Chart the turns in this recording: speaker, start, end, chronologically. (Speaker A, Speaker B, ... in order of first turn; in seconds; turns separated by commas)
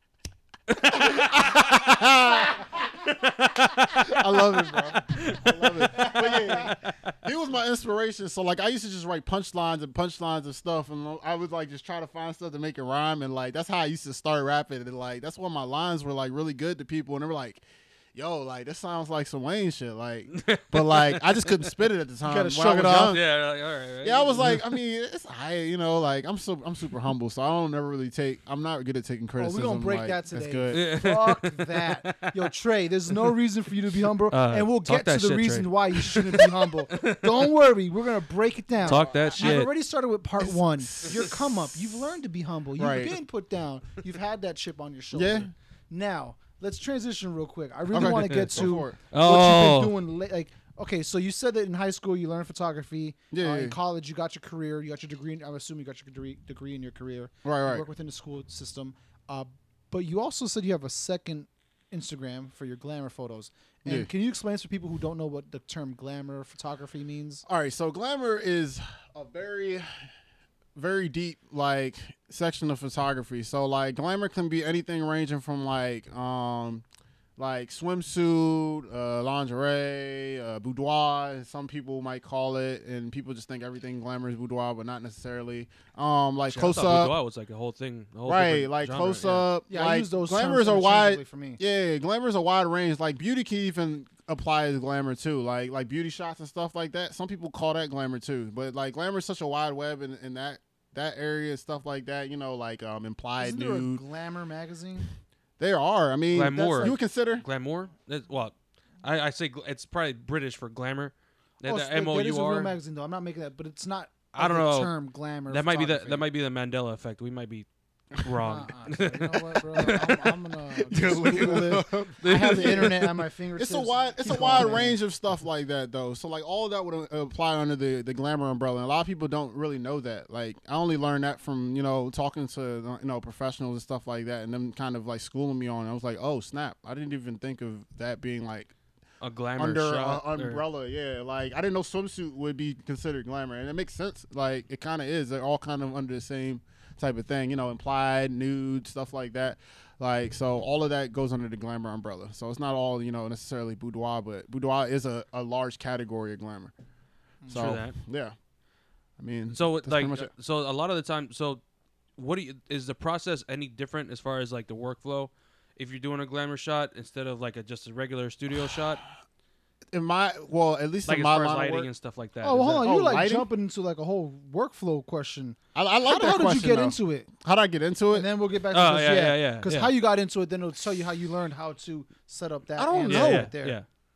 Speaker A: 0.7-1.6, Speaker B: 0.8-23.2, Speaker A: 3.0-7.1, Speaker A: 20.3-21.7, Speaker C: 22.2-23.2, Speaker A: 23.0-24.7, Speaker B: 24.0-30.8, Speaker C: 29.4-67.4, Speaker A: 30.7-32.3, Speaker A: 34.3-37.5, Speaker B: 38.8-39.5, Speaker A: 38.8-39.7, Speaker B: 40.4-42.0, Speaker B: 42.8-43.1, Speaker B: 45.1-45.5, Speaker B: 47.9-49.0, Speaker A: 48.0-49.9, Speaker B: 53.3-53.8, Speaker B: 57.4-57.8, Speaker B: 67.5-69.8, Speaker B: 70.8-76.8, Speaker B: 77.4-87.1, Speaker A: 86.5-89.5, Speaker B: 88.2-104.0, Speaker C: 89.7-91.6, Speaker C: 103.4-105.1, Speaker B: 105.6-107.4, Speaker A: 106.3-112.7, Speaker C: 111.6-116.2, Speaker A: 114.3-114.9, Speaker A: 115.5-120.3, Speaker C: 118.4-125.0, Speaker B: 120.9-123.0, Speaker A: 121.0-123.1, Speaker B: 123.6-138.7, Speaker A: 124.3-124.8, Speaker A: 139.2-140.6, Speaker B: 139.6-156.7, Speaker C: 157.4-157.7, Speaker B: 157.5-158.3, Speaker A: 157.5-157.9, Speaker B: 159.2-160.3, Speaker A: 159.5-161.6, Speaker A: 162.2-169.0, Speaker B: 169.9-171.9, Speaker A: 171.1-172.9, Speaker C: 172.4-177.3, Speaker B: 172.8-173.5, Speaker B: 175.7-178.3, Speaker C: 178.1-183.8, Speaker A: 178.7-179.9, Speaker B: 182.8-183.5, Speaker A: 183.1-183.8